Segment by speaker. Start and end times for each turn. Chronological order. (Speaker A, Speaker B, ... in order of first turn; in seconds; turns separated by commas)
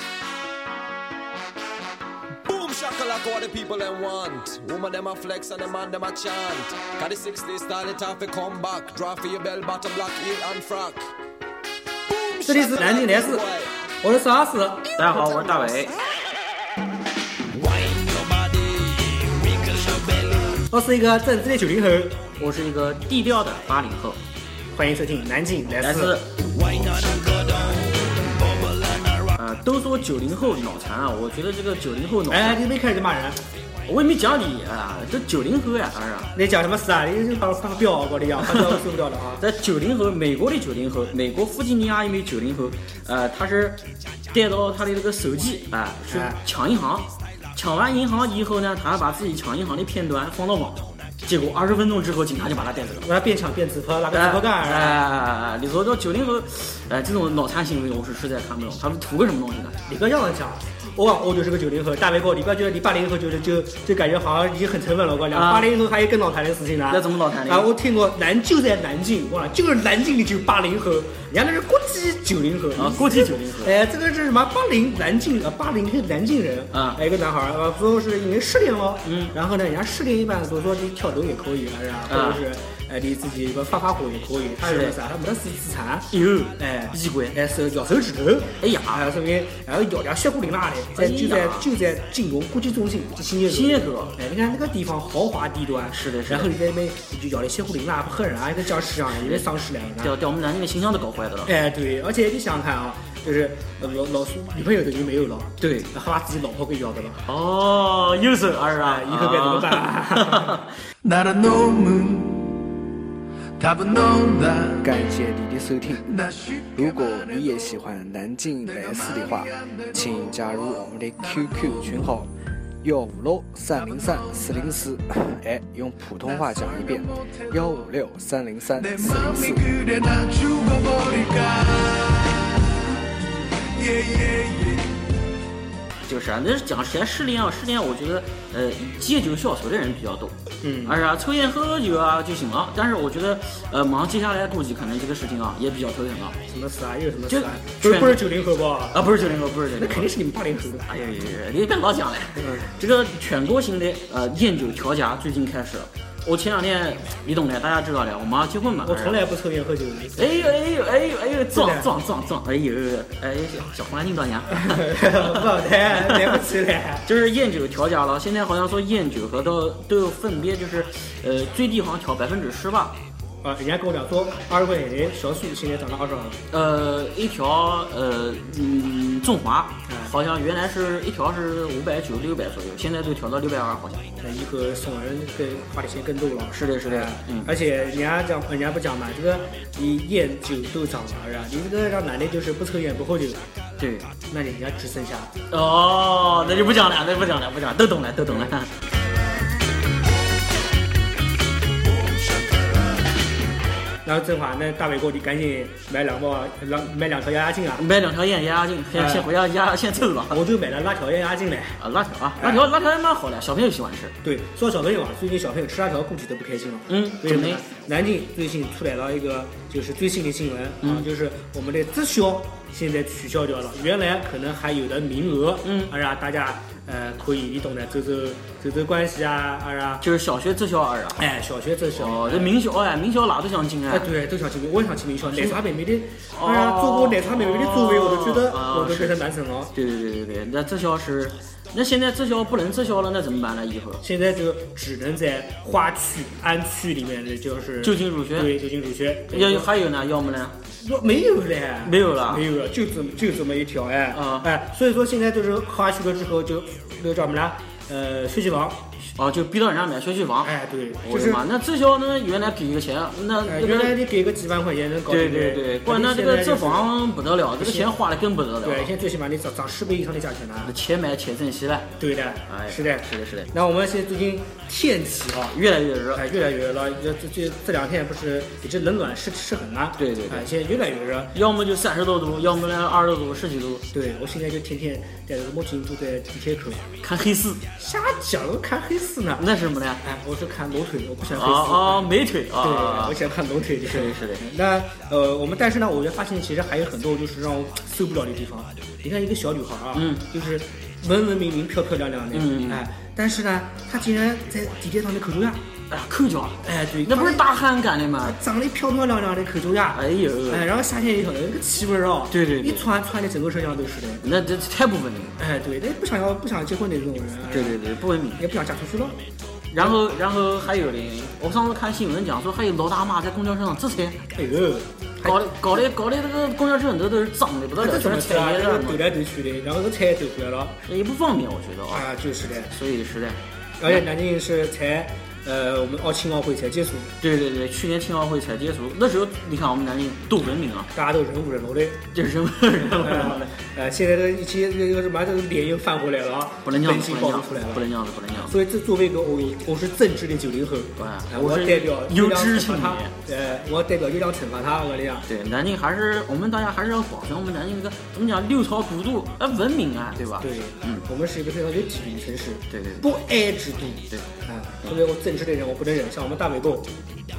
Speaker A: 2.4-11.1, Speaker A: 12.1-13.7, Speaker B: 12.4-13.4, Speaker B: 14.0-15.0, Speaker C: 15.0-16.0, Speaker A: 17.5-20.6, Speaker B: 20.7-22.2, Speaker C: 22.4-24.2, Speaker B: 24.7-26.2, Speaker C: 25.8-26.4, Speaker A: 26.5-29.3, Speaker C: 29.4-32.6, Speaker B: 32.3-33.4, Speaker C: 33.9-36.3, Speaker B: 36.3-39.4, Speaker C: 39.4-53.1, Speaker B: 46.1-46.4, Speaker B: 53.0-55.0, Speaker C: 54.1-59.8, Speaker B: 59.9-100.1, Speaker C: 65.3-65.7, Speaker C: 66.9-67.7, Speaker C: 72.8-73.8, Speaker C: 76.7-77.0, Speaker C: 79.0-79.3, Speaker C: 82.1-82.4, Speaker C: 84.6-85.0, Speaker C: 86.1-87.4, Speaker C: 88.6-89.1, Speaker C: 91.0-91.7, Speaker C: 93.5-94.2, Speaker C: 95.9-96.5, Speaker C: 99.1-99.4, Speaker C: 100.0-101.5, Speaker B: 101.5-107.3, Speaker C: 105.6-105.9, Speaker C: 107.3-110.7, Speaker B: 108.8-110.7, Speaker A: 111.1-111.9, Speaker D: 111.9-112.4, Speaker D: 113.6-114.8, Speaker E: 114.8-116.1, Speaker D: 116.2-117.0, Speaker E: 116.8-122.3, Speaker D: 118.8-119.6, Speaker D: 120.2-120.7, Speaker E: 122.8-129.8, Speaker D: 126.5-126.9, Speaker D: 128.8-131.6, Speaker A: 131.2-132.2, Speaker A: 133.8-134.8, Speaker C: 136.1-146.4, Speaker B: 140.6-141.0, Speaker B: 146.5-149.0, Speaker C: 147.3-148.3, Speaker C: 148.9-150.1, Speaker B: 149.7-150.9, Speaker C: 150.9-159.2, Speaker B: 152.4-152.7, Speaker B: 158.8-160.5, Speaker C: 160.2-165.4, Speaker B: 161.5-161.9, Speaker B: 164.5-167.1, Speaker C: 165.9-166.4, Speaker C: 167.1-173.0, Speaker B: 173.4-176.4, Speaker C: 176.5-184.1, Speaker B: 179.9-180.1, Speaker B: 184.2-193.4, Speaker C: 186.5-187.5, Speaker C: 193.8-194.1, Speaker B: 194.3-195.3, Speaker C: 195.5-198.7, Speaker B: 196.4-197.0, Speaker B: 204.1-207.8, Speaker C: 207.8-210.4, Speaker B: 208.9-209.3, Speaker B: 210.3-211.8, Speaker C: 211.8-214.2, Speaker B: 212.4-212.7, Speaker B: 214.2-230.1, Speaker C: 216.9-217.6, Speaker C: 225.6-225.9, Speaker C: 230.0-231.3, Speaker B: 231.2-232.5, Speaker C: 232.0-234.1, Speaker B: 233.9-239.7, Speaker C: 235.3-235.6, Speaker C: 236.3-239.2, Speaker C: 239.7-244.0, Speaker B: 244.0-249.7, Speaker C: 247.8-248.6, Speaker C: 249.3-250.6, Speaker B: 250.8-258.8, Speaker C: 251.8-252.4, Speaker C: 254.1-254.5, Speaker C: 259.2-264.0, Speaker B: 260.4-261.4, Speaker B: 263.4-266.9, Speaker C: 265.1-268.9, Speaker B: 267.6-267.9, Speaker B: 268.6-270.7, Speaker C: 270.6-271.9, Speaker B: 272.0-275.6, Speaker C: 272.5-273.5, Speaker C: 275.5-276.2, Speaker B: 276.1-281.3, Speaker C: 280.0-280.5, Speaker C: 281.3-283.9, Speaker B: 283.9-286.8, Speaker C: 287.0-287.6, Speaker B: 287.8-289.4, Speaker C: 289.4-290.0, Speaker B: 290.0-305.6, Speaker C: 291.3-293.2, Speaker C: 293.8-294.4, Speaker C: 299.9-300.2, Speaker C: 302.3-302.8, Speaker C: 305.9-308.4, Speaker B: 306.6-307.5, Speaker B: 308.2-314.2, Speaker C: 309.9-310.7, Speaker C: 312.3-312.8, Speaker C: 314.2-315.4, Speaker B: 315.4-317.8, Speaker C: 317.5-318.4, Speaker B: 318.4-319.2, Speaker C: 319.7-324.2, Speaker B: 324.3-325.8, Speaker C: 325.2-329.0, Speaker B: 327.8-330.8, Speaker C: 330.9-332.1, Speaker B: 331.9-332.7, Speaker C: 332.7-334.0, Speaker B: 333.8-337.1, Speaker C: 337.2-340.9, Speaker B: 340.9-342.1, Speaker C: 342.1-343.5, Speaker B: 342.8-347.8, Speaker C: 346.6-348.5, Speaker B: 348.4-355.3, Speaker C: 351.0-353.1, Speaker C: 355.3-361.1, Speaker B: 360.4-366.9, Speaker C: 362.7-363.1